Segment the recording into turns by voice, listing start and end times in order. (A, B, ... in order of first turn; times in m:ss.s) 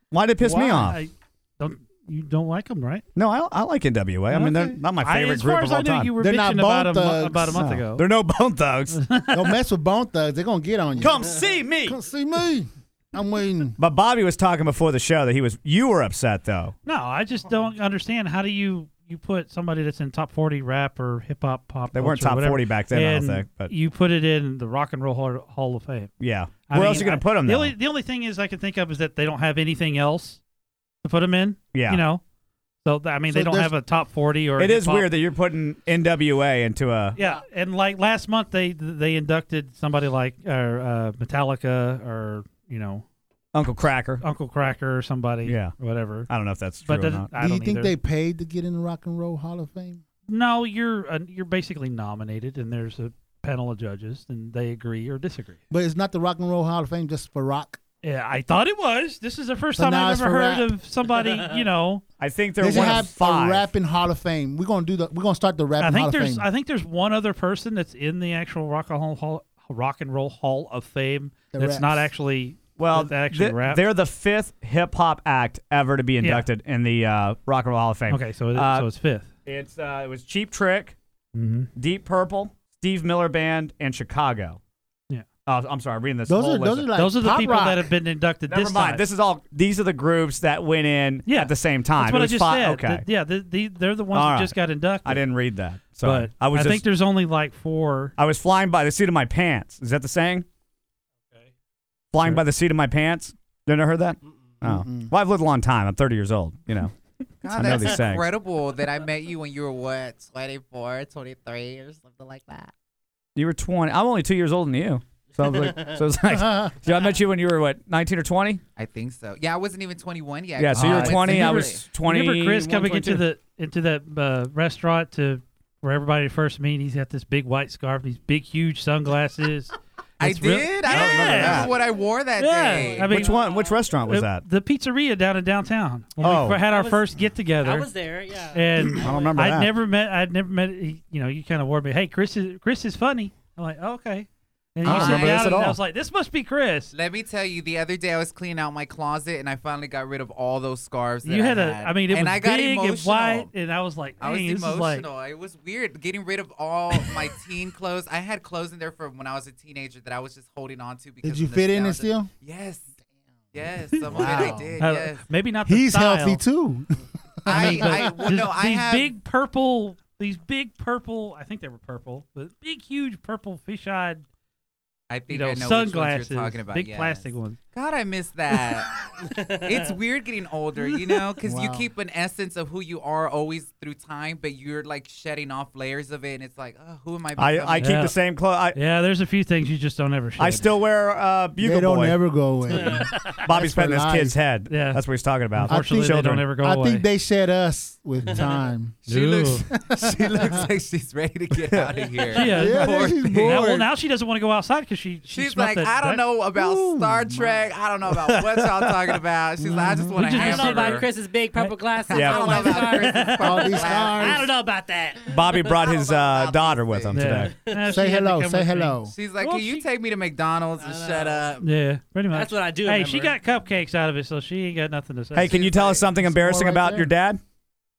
0:00.1-0:01.0 A
0:00.4-0:01.0 B
0:00.5-0:03.0 C
0:03.2-0:06.1 A
0:04.3-0:08.1 C
0:06.2-0:07.7 B
0:07.5-0:09.0 A
0:08.9-0:09.5 C
0:09.3-0:13.8 B
0:11.0-0:12.0 A
0:13.8-0:16.7 A
0:16.8-0:26.1 C
0:21.9-0:23.7 A
0:26.2-0:27.8 A
0:26.7-0:30.4 C
0:31.0-0:32.2 C
0:31.7-0:32.0 A
0:32.8-0:35.1 C
0:33.3-0:33.7 B
0:34.6-0:37.2 A
0:37.2-0:43.0 C
0:43.5-0:44.2 A
0:44.2-0:46.3 C
0:45.4-0:47.3 A
0:46.8-0:47.9 C
0:47.3-0:50.0 B
0:50.3-0:55.6 C
0:55.7-0:57.8 B
0:58.0-1:02.0 C
0:59.8-1:00.7 B
1:01.2-1:01.6 D
1:02.2-1:03.7 A
1:02.6-1:06.5 B
1:05.8-1:13.9 C
1:11.5-1:12.1 B
1:12.8-1:18.9 A
1:16.2-1:16.5 C
1:18.1-1:19.3 C
1:19.4-1:21.0 A
1:21.3-1:21.7 C
1:21.8-1:24.6 A
1:25.4-1:26.9 A
1:26.3-1:27.9 B
1:26.9-1:29.0 C
1:28.4-1:33.1 A
1:31.3-1:35.3 C
1:34.1-1:36.8 A
1:36.0-1:38.1 C
1:38.2-1:40.4 A
1:42.1-1:46.9 A
1:44.6-1:45.1 B
1:47.4-1:52.7 E
1:47.5-1:48.3 A
1:53.4-1:58.6 A
1:55.4-1:56.0 D
1:56.3-1:56.8 B
1:58.8-2:01.9 E
2:00.6-2:03.2 A
2:00.7-2:11.7 C
2:10.2-2:13.3 E
2:10.9-2:11.7 A
2:12.4-2:13.4 C
2:12.6-2:14.0 D
2:13.1-2:14.4 A
2:14.0-2:17.9 C
2:16.2-2:16.6 A
2:16.6-2:19.5 D
2:18.5-2:26.9 C
2:19.0-2:19.7 A
2:24.8-2:25.8 A
2:24.8-2:25.6 E
2:26.9-2:33.5 E
2:31.2-2:35.1 C
2:34.2-2:42.9 E
2:41.2-2:42.3 B
2:43.5-2:45.2 E
2:44.1-2:44.8 B
2:44.2-2:46.4 C
2:45.7-2:48.4 B
2:47.4-2:49.1 E
2:47.5-2:54.2 C
2:55.1-3:07.9 E
2:55.3-2:57.6 C
2:59.3-2:59.9 D
3:01.4-3:01.9 B
3:07.4-3:08.8 A
3:07.8-3:10.7 C
3:10.4-3:12.2 A
3:11.6-3:14.4 B
3:12.7-3:13.4 D
3:13.4-3:16.4 A
3:14.7-3:15.0 C
3:15.6-3:17.1 C
3:15.7-3:19.0 B
3:18.3-3:18.7 D
3:19.1-3:19.7 C
3:19.1-3:23.7 E
3:19.7-3:20.7 B
3:22.4-3:26.2 C
3:22.5-3:23.9 B
3:25.3-3:31.1 E
3:26.6-3:27.6 B
3:28.3-3:28.6 A
3:29.6-3:30.1 B
3:30.1-3:31.8 C
3:30.3-3:35.8 D
3:32.1-3:34.5 E
3:32.1-3:32.8 A
3:33.4-3:34.4 B
3:35.3-3:37.6 A
3:35.6-3:37.4 E
3:37.1-3:39.8 C
3:37.4-3:38.0 D
3:37.9-3:39.1 B
3:39.1-3:41.6 E
3:40.8-3:41.6 D
3:41.6-3:45.7 C
3:42.3-3:43.4 D
3:45.3-3:47.4 A
3:45.6-3:46.1 E
3:46.1-3:47.1 B